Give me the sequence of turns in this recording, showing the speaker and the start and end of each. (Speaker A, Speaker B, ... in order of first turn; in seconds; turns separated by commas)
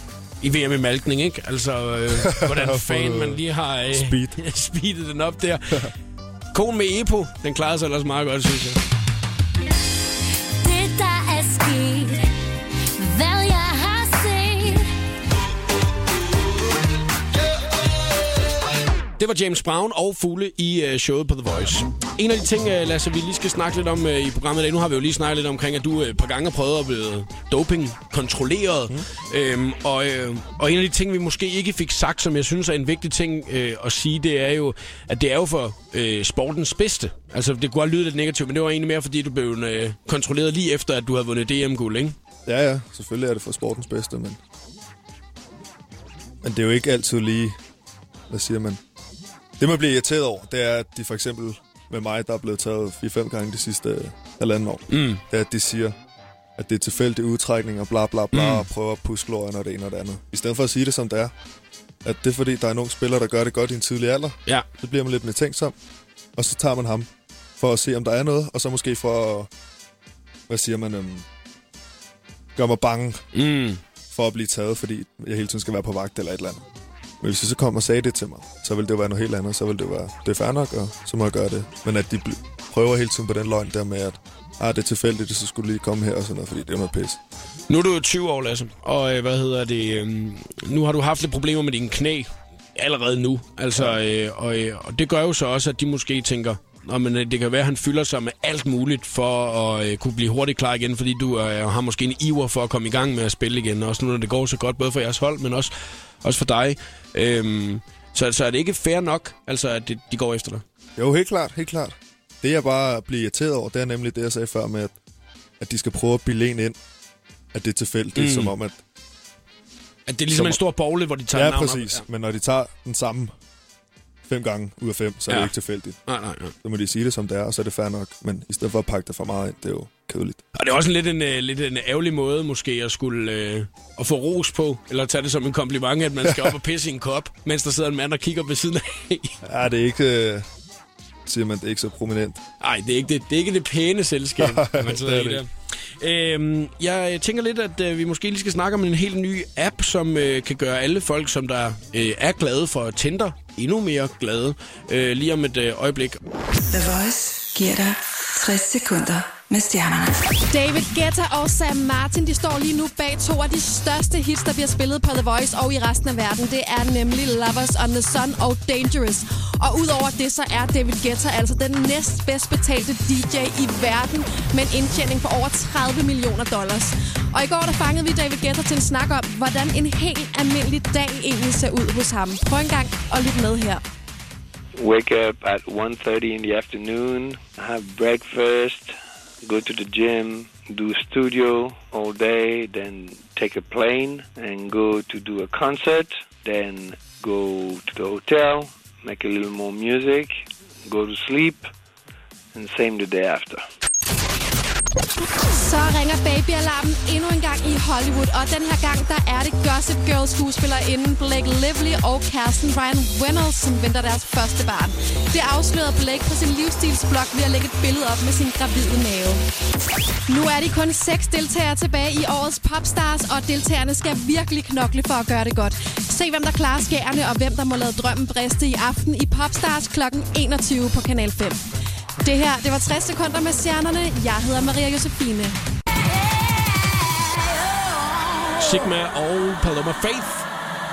Speaker A: 0.4-5.9, Speaker B: 2.2-4.4, Speaker A: 6.5-8.8, Speaker C: 10.6-12.2, Speaker C: 13.0-14.9, Speaker A: 19.2-42.2, Speaker B: 42.5-44.4, Speaker B: 46.4-47.6, Speaker B: 48.3-48.8, Speaker B: 49.6-56.0, Speaker A: 54.9-55.2, Speaker B: 56.6-61.3, Speaker A: 58.3-58.7, Speaker B: 62.0-65.8, Speaker B: 66.3-69.5, Speaker B: 70.5-71.3, Speaker B: 72.6-73.2, Speaker A: 73.3-73.8, Speaker B: 74.1-76.6, Speaker B: 77.2-87.2, Speaker A: 87.7-105.7, Speaker A: 106.2-110.6, Speaker B: 111.0-115.0, Speaker B: 115.6-116.8, Speaker B: 117.5-118.8, Speaker A: 118.2-118.5, Speaker A: 120.1-122.0, Speaker B: 120.3-120.6, Speaker B: 121.3-123.3, Speaker B: 124.2-126.0, Speaker A: 125.3-125.5, Speaker A: 126.1-126.5, Speaker B: 126.6-130.4, Speaker A: 130.5-139.4, Speaker B: 136.2-136.6, Speaker B: 139.4-140.4, Speaker B: 141.3-142.4, Speaker A: 142.6-156.2, Speaker B: 144.4-145.4, Speaker D: 156.7-160.3, Speaker E: 160.5-183.8, Speaker F: 184.8-201.7, Speaker F: 202.5-203.6, Speaker E: 205.4-219.4, Speaker E: 220.3-231.6, Speaker E: 232.2-235.6, Speaker A: 238.6-240.5